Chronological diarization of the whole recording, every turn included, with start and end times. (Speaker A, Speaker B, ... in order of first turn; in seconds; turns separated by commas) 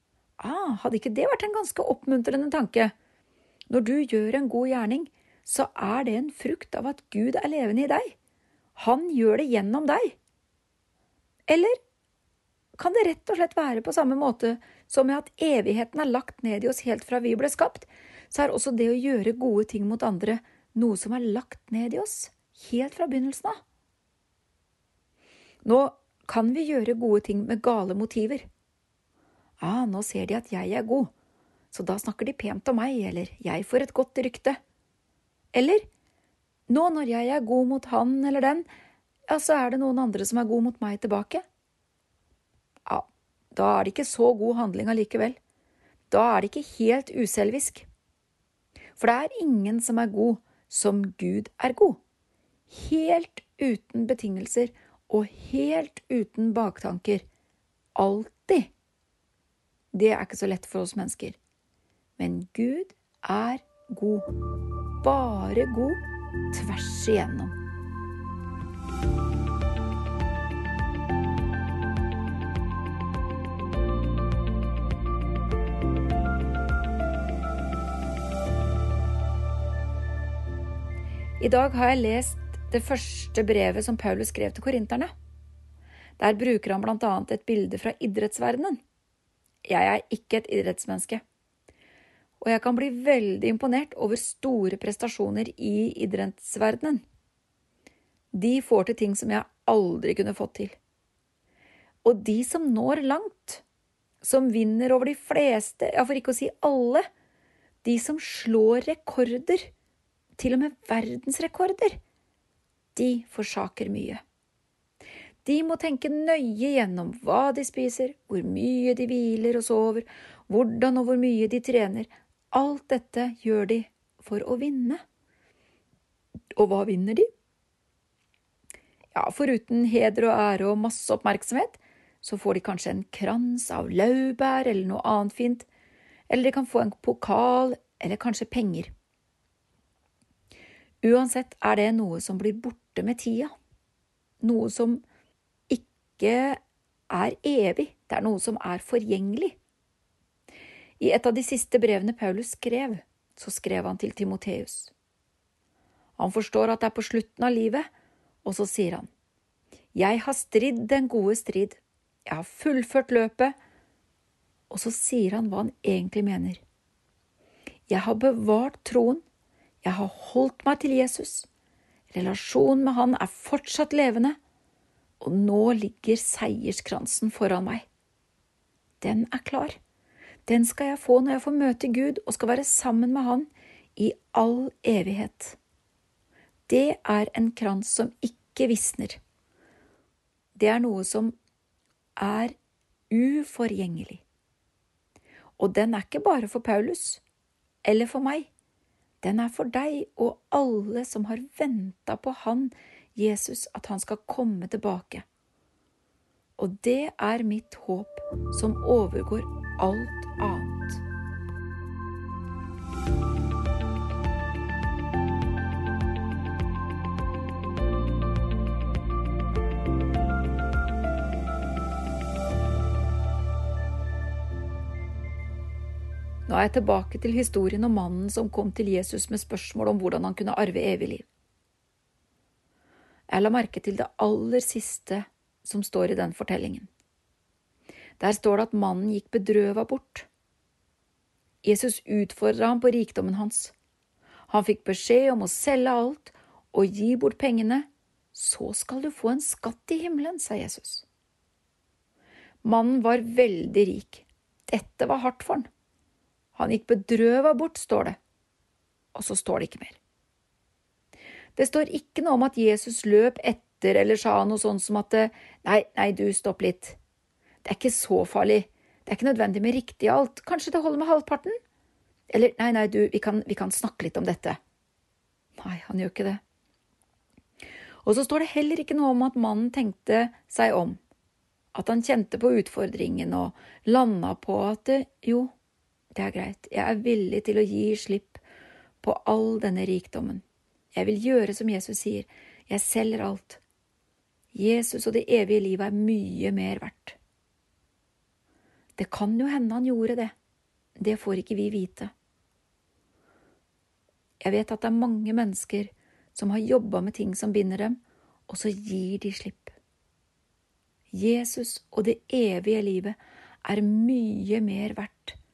Speaker A: 0.4-2.9, Speaker A: 3.7-8.2, Speaker A: 8.8-10.2, Speaker A: 11.5-11.8, Speaker A: 12.8-23.6, Speaker A: 25.6-28.5, Speaker A: 29.6-31.1, Speaker A: 31.7-34.6, Speaker A: 35.5-35.9, Speaker A: 36.7-38.7, Speaker A: 39.3-41.4, Speaker A: 42.9-45.4, Speaker A: 46.1-47.9, Speaker A: 49.0-52.0, Speaker A: 52.7-57.2, Speaker A: 58.0-58.7, Speaker A: 59.9-61.4, Speaker A: 62.2-64.3, Speaker A: 65.0-67.6, Speaker A: 81.4-85.1, Speaker A: 86.2-88.8, Speaker A: 89.7-91.2, Speaker A: 92.4-97.0, Speaker A: 98.3-100.8, Speaker A: 102.0-103.6, Speaker A: 104.2-107.1, Speaker A: 107.8-109.7, Speaker A: 110.4-112.0, Speaker A: 113.0-114.2, Speaker A: 115.5-125.0, Speaker A: 126.6-127.3, Speaker A: 129.1-135.7, Speaker A: 136.3-138.9, Speaker A: 141.0-143.5, Speaker A: 144.4-145.0, Speaker A: 145.7-146.6, Speaker A: 147.1-149.6, Speaker A: 151.0-154.9, Speaker A: 156.2-157.9, Speaker A: 158.4-159.1, Speaker A: 159.9-163.6, Speaker A: 164.7-166.6, Speaker A: 167.9-169.2, Speaker A: 169.8-171.5, Speaker A: 172.1-174.4, Speaker A: 175.2-177.8, Speaker A: 179.0-179.8, Speaker A: 180.5-185.6, Speaker A: 186.7-189.2, Speaker A: 190.6-191.3, Speaker A: 192.2-192.6, Speaker A: 193.1-194.2, Speaker A: 195.6-197.2, Speaker A: 197.8-198.5, Speaker A: 199.2-205.2, Speaker A: 206.6-211.0, Speaker A: 226.5-231.2, Speaker A: 233.3-236.9, Speaker A: 238.2-240.3, Speaker A: 241.6-243.7, Speaker A: 244.5-251.1, Speaker A: 252.6-255.7, Speaker A: 256.6-258.2, Speaker A: 259.1-260.0, Speaker A: 261.6-267.0, Speaker A: 267.6-271.6, Speaker A: 272.3-274.6, Speaker A: 275.6-276.4, Speaker A: 278.0-281.0, Speaker A: 281.7-285.5, Speaker A: 286.1-288.4, Speaker A: 289.0-290.4, Speaker A: 290.9-293.6, Speaker A: 294.5-297.2, Speaker A: 299.0-300.3, Speaker A: 301.0-302.1, Speaker A: 304.4-309.7, Speaker A: 311.1-315.4